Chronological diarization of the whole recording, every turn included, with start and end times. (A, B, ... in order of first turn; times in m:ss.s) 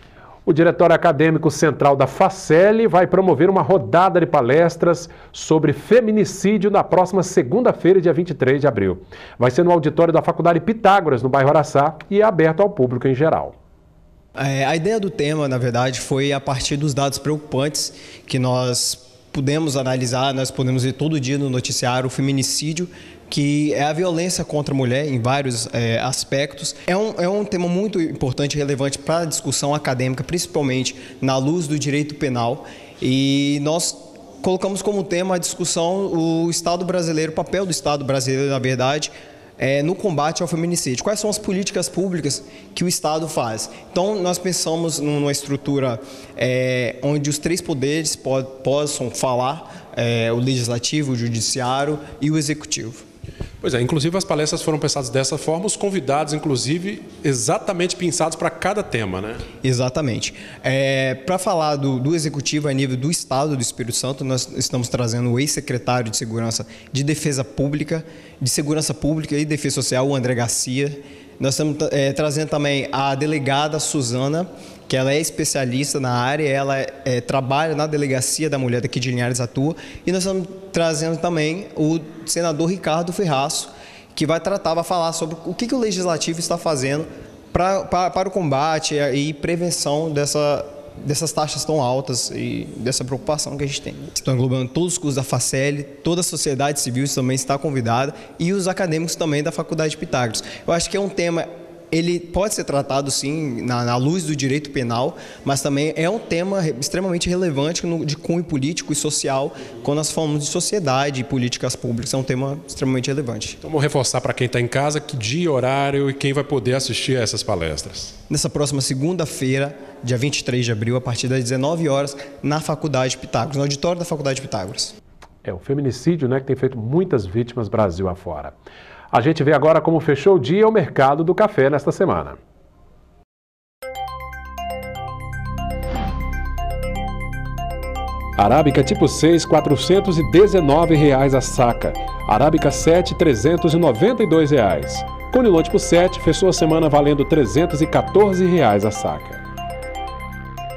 0:00.5-0:13.6 A
0:14.4-0:53.0 B
0:53.6-0:59.4 A
0:59.6-1:53.6 B
1:53.6-1:58.2 A
1:58.3-2:04.9 B
2:05.4-2:08.6 A
2:09.1-2:12.4 A
2:18.4-2:29.4 A